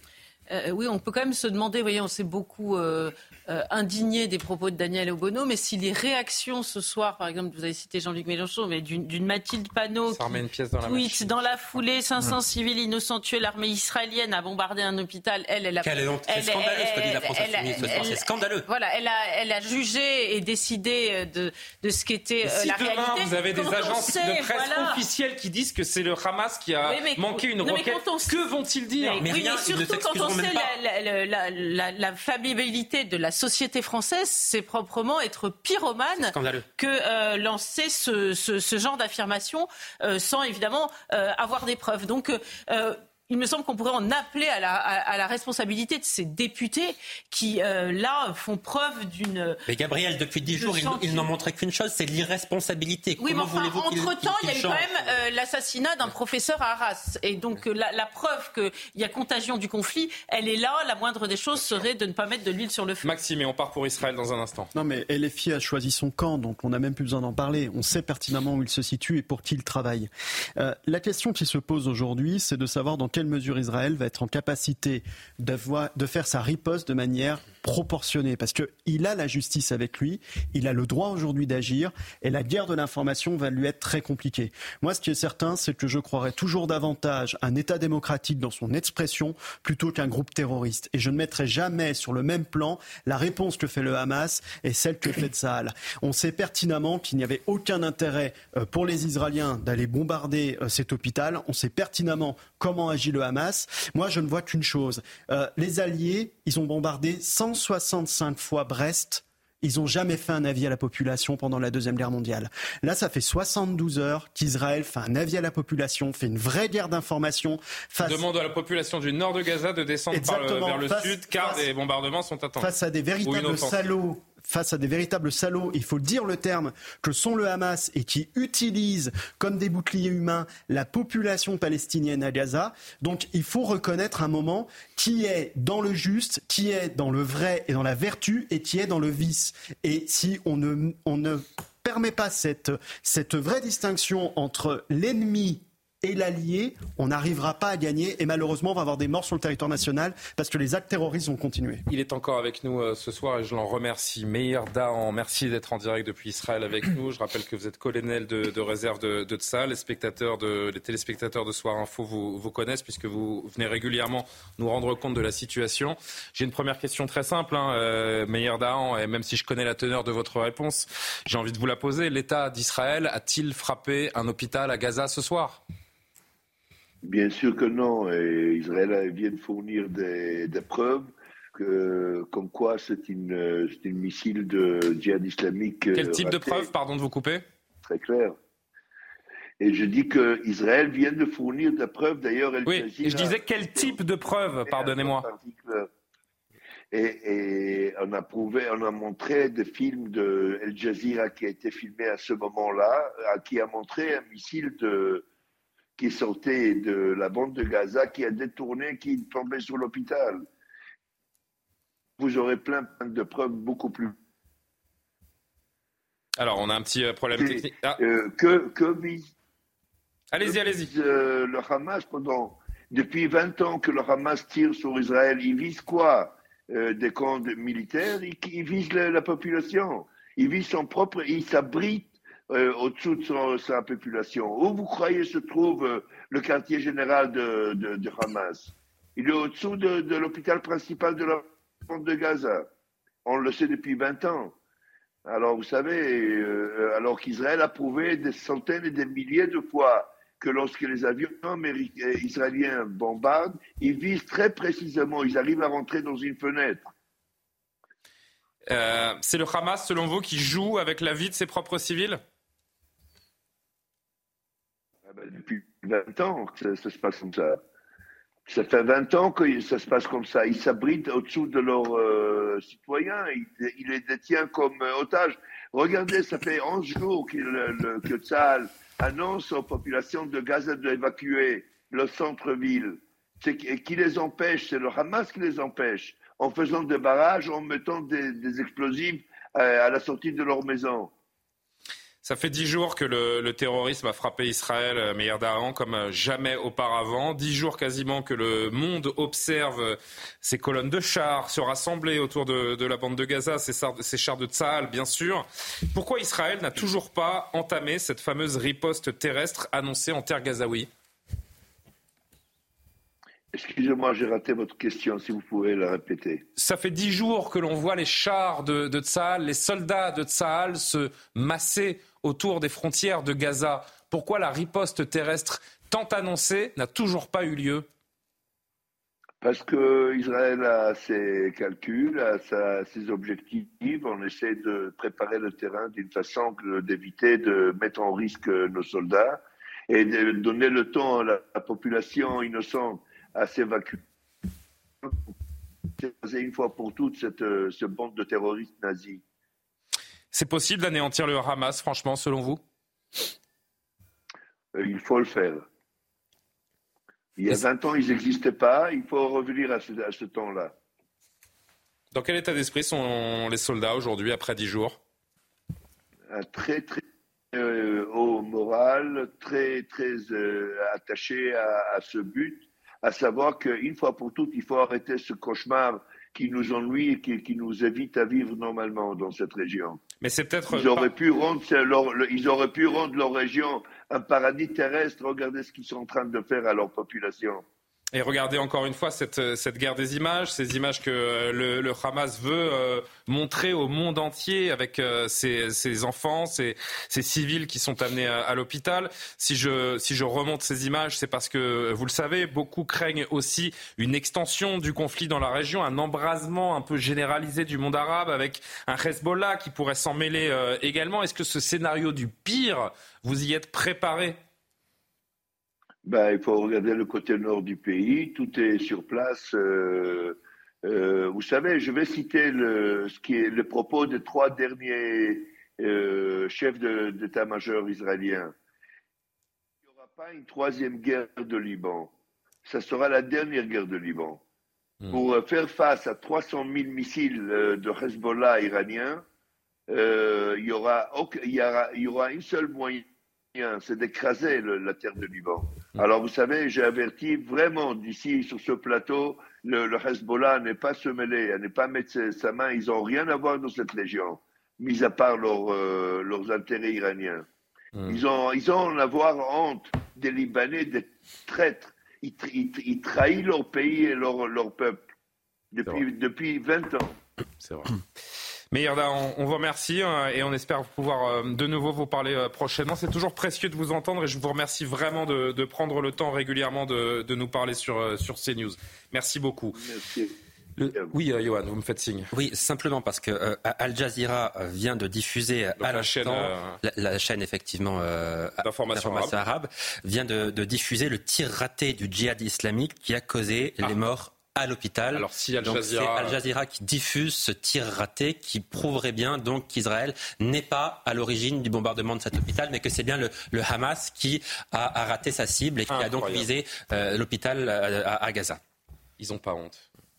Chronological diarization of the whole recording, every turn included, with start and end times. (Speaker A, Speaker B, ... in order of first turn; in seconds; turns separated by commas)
Speaker A: 0.5-25.0, Speaker B: 10.1-11.3, Speaker C: 15.8-18.7, Speaker B: 22.4-29.3, Speaker A: 26.9-28.4, Speaker A: 29.0-49.6, Speaker C: 29.2-30.7, Speaker C: 36.2-36.7, Speaker C: 49.7-55.0, Speaker A: 50.5-51.3, Speaker A: 53.2-63.0, Speaker B: 61.6-61.9, Speaker B: 63.0-64.7, Speaker D: 64.7-118.2, Speaker B: 118.0-122.7, Speaker D: 120.1-121.7, Speaker D: 122.6-151.8, Speaker B: 123.2-123.8, Speaker B: 151.9-175.6, Speaker E: 177.0-186.7, Speaker B: 185.9-187.4, Speaker E: 187.9-188.4, Speaker E: 189.6-194.0, Speaker B: 192.7-195.3, Speaker E: 194.7-195.9, Speaker E: 196.9-205.2, Speaker E: 206.0-210.4, Speaker E: 212.2-214.1, Speaker B: 216.4-218.0, Speaker E: 217.3-219.3, Speaker B: 220.3-220.9, Speaker E: 220.4-242.7, Speaker E: 243.3-244.6, Speaker E: 245.3-256.9, Speaker B: 258.7-262.2, Speaker E: 265.1-267.6, Speaker E: 268.5-291.1, Speaker B: 292.2-310.9, Speaker E: 313.5-316.4, Speaker B: 316.6-327.9, Speaker E: 329.4-344.0, Speaker E: 345.0-345.3, Speaker E: 346.0-349.2, Speaker B: 350.3-352.6, Speaker E: 354.7-355.6, Speaker E: 357.4-360.7, Speaker B: 362.1-365.0, Speaker E: 366.3-367.0, Speaker E: 367.5-380.0, Speaker B: 380.2-381.1, Speaker E: 380.7-387.6, Speaker B: 388.1-414.4, Speaker E: 416.1-428.5, Speaker E: 429.9-432.1, Speaker E: 432.6-434.4, Speaker E: 435.1-439.2, Speaker E: 439.9-457.4, Speaker B: 457.9-458.2, Speaker E: 458.1-465.0, Speaker E: 465.7-467.1, Speaker B: 467.6-467.9, Speaker B: 468.7-479.8, Speaker E: 479.7-480.3, Speaker B: 480.8-482.3, Speaker C: 482.3-508.6, Speaker B: 485.8-486.8, Speaker B: 488.6-489.3, Speaker B: 495.1-496.4, Speaker B: 505.9-506.5, Speaker B: 509.2-509.9